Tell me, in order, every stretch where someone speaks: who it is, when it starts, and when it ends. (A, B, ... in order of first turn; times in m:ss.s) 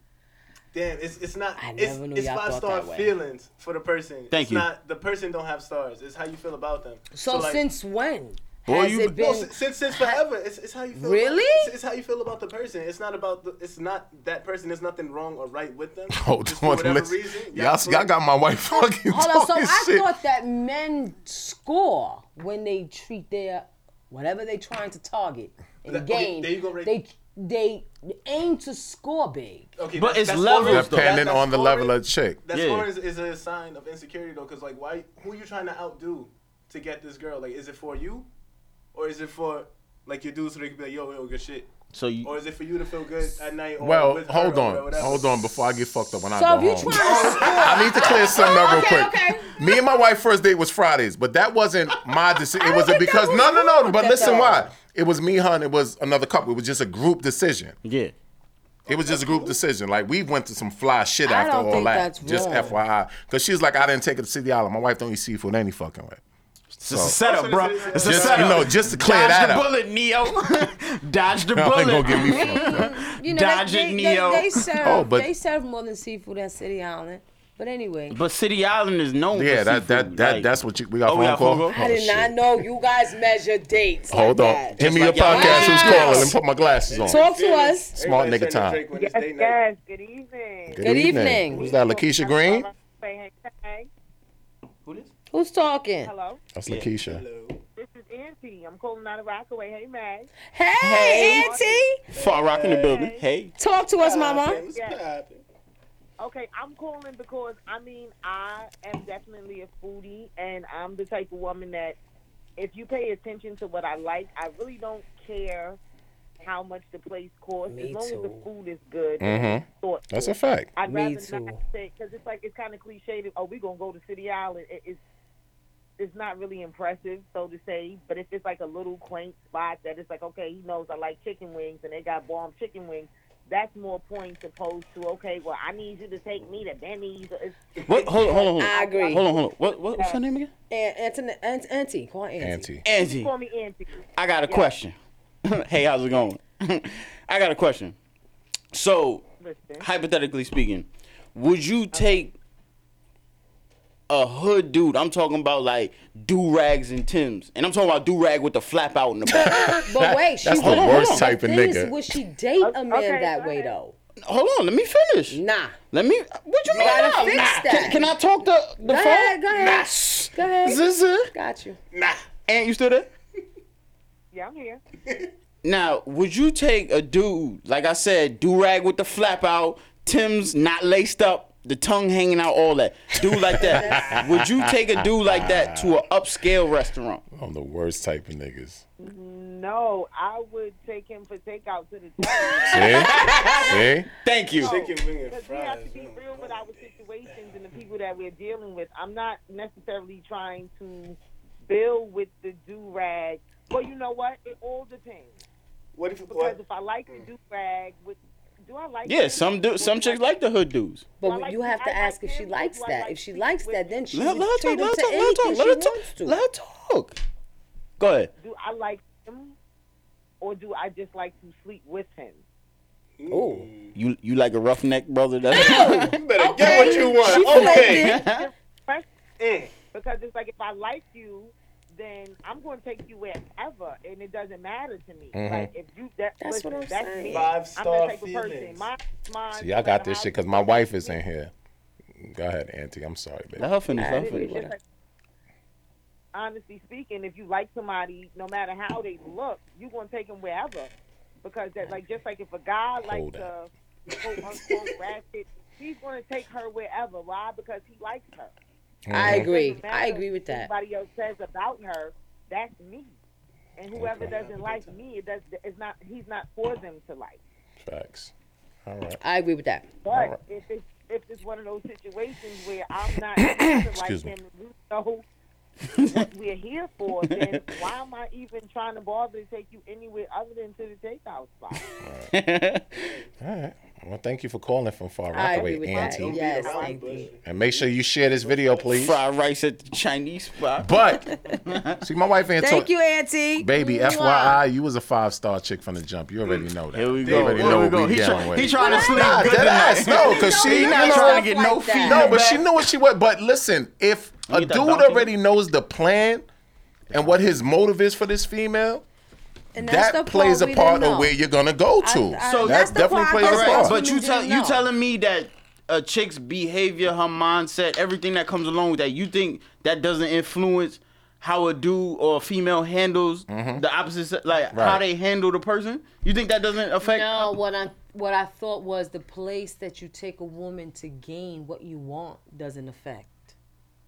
0:00.7-0:07.6 A
0:01.6-0:03.2 B
0:04.3-0:04.7 C
0:07.1-0:10.2 B
0:08.7-0:09.1 C
0:09.0-0:18.1 A
0:10.9-0:11.7 B
0:16.1-0:20.1 D
0:19.0-0:29.7 B
0:25.9-0:26.9 A
0:29.8-0:31.9 A
0:30.0-0:31.2 C
0:30.6-0:32.4 D
0:32.4-0:38.3 A
0:32.5-0:32.9 C
0:38.9-0:41.7 A
0:41.9-0:42.3 C
0:42.2-0:45.4 A
0:43.8-0:57.7 D
0:46.3-0:49.6 B
0:46.9-0:47.9 A
0:52.6-0:54.7 B
0:57.8-0:58.1 C
0:58.9-0:59.6 A
0:58.9-1:06.2 D
1:01.2-1:02.8 B
1:06.8-1:14.6 C
1:06.8-1:07.2 D
1:07.2-1:08.8 A
1:08.0-1:09.7 D
1:11.5-1:12.9 D
1:12.1-1:18.2 B
1:14.8-1:15.3 D
1:18.1-1:20.5 C
1:19.3-1:22.4 D
1:21.0-1:21.7 C
1:21.7-1:26.4 B
1:24.1-1:27.2 D
1:24.8-1:26.3 C
1:26.9-1:29.6 A
1:27.1-1:28.0 B
1:28.0-1:28.8 D
1:28.9-1:33.9 E
1:30.7-1:32.7 D
1:30.8-1:31.7 B
1:35.3-1:36.1 B
1:36.0-1:36.5 E
1:36.5-1:37.2 D
1:36.7-1:37.6 A
1:37.7-1:40.3 E
1:40.5-1:42.0 B
1:40.8-1:41.6 C
1:41.0-1:42.2 E
1:42.1-1:43.5 C
1:42.2-1:43.0 A
1:42.9-1:43.2 E
1:43.6-1:44.6 B
1:44.0-1:45.4 A
1:44.5-1:45.0 E
1:46.2-1:52.0 E
1:52.6-1:55.8 E
1:56.4-2:05.0 E
1:57.7-1:58.5 B
1:59.2-2:00.7 D
2:00.8-2:01.6 B
2:06.0-2:20.2 E
2:17.8-2:20.5 C
2:18.6-2:19.3 B
2:20.7-2:22.7 B
2:22.4-2:22.8 D
2:22.8-2:23.3 C
2:23.0-2:24.7 E
2:24.2-2:27.9 C
2:28.7-2:29.2 C
2:29.4-2:29.9 E
2:29.8-2:32.3 C
2:31.9-2:32.2 E
2:34.1-2:39.6 C
2:39.3-2:41.9 D
2:39.4-2:43.9 B
2:40.6-2:41.2 C
2:42.6-2:43.7 E
2:44.2-2:45.4 C
2:45.3-2:45.8 B
2:45.9-2:51.3 C
2:46.7-2:47.5 A
2:46.8-2:48.1 B
2:48.8-2:51.8 B
2:51.9-2:52.2 A
2:52.5-2:53.1 C
2:54.3-2:54.8 E
2:55.6-3:07.2 C
3:03.2-3:04.7 D
3:05.2-3:06.0 D
3:07.3-3:08.8 D
3:09.0-3:13.8 E
3:12.5-3:14.7 C
3:12.7-3:14.1 D
3:14.6-3:17.3 A
3:14.6-3:25.4 E
3:26.0-3:26.6 A
3:26.3-3:30.4 E
3:29.0-3:31.1 C
3:31.2-3:34.0 E
3:31.2-3:36.4 B
3:34.1-3:37.2 C
3:38.0-3:38.3 C
3:38.4-3:39.5 E
3:40.4-3:42.4 E
3:43.2-3:43.9 A
3:43.3-3:43.7 B
3:43.9-3:48.5 C
3:45.5-3:48.2 B
3:45.5-3:48.2 A
3:47.6-3:49.1 E
3:49.4-3:49.7 A
3:49.9-4:01.2 E
3:55.3-3:55.7 D
3:56.4-3:57.5 B
3:57.3-3:58.9 A
3:59.5-4:01.5 D
4:02.2-4:03.7 D
4:03.6-4:04.6 C
4:03.9-4:04.7 B
4:04.0-4:04.8 E
4:06.3-4:10.9 E
4:11.4-4:18.5 E
4:13.0-4:13.5 D
4:14.2-4:14.9 A
4:19.1-4:19.5 D
4:19.1-4:20.7 B
4:19.2-4:23.2 E
4:23.8-4:27.4 E
4:23.9-4:24.3 D
4:24.2-4:24.9 A
4:27.8-4:28.3 D
4:28.8-4:29.2 D
4:29.2-4:29.9 B
4:30.0-4:35.2 E
4:30.1-4:30.4 D
4:33.4-4:34.3 D
4:35.9-4:36.2 C
4:36.1-4:41.9 E
4:37.2-4:37.7 C
4:42.0-4:42.3 D
4:42.3-4:43.0 C
4:43.4-4:46.5 D
4:45.3-4:47.3 B
4:45.9-4:47.8 A
4:46.5-4:47.2 E
4:47.4-4:49.2 D
4:48.4-4:48.8 A
4:48.9-4:50.9 C
4:50.8-4:51.3 D
4:51.7-4:52.0 C
4:52.0-4:52.9 D
4:52.6-4:54.6 B
4:53.6-5:01.4 D
4:56.9-5:02.7 C
4:57.2-4:58.0 A
4:58.7-4:59.6 B
5:00.1-5:02.4 B
5:02.0-5:06.4 D
5:04.5-5:05.3 C
5:07.1-5:09.0 D
5:09.7-5:11.4 B
5:09.8-5:14.0 D
5:12.0-5:14.8 B
5:12.4-5:27.5 C
5:23.5-5:23.8 D
5:24.7-5:25.0 D
5:27.0-5:33.5 B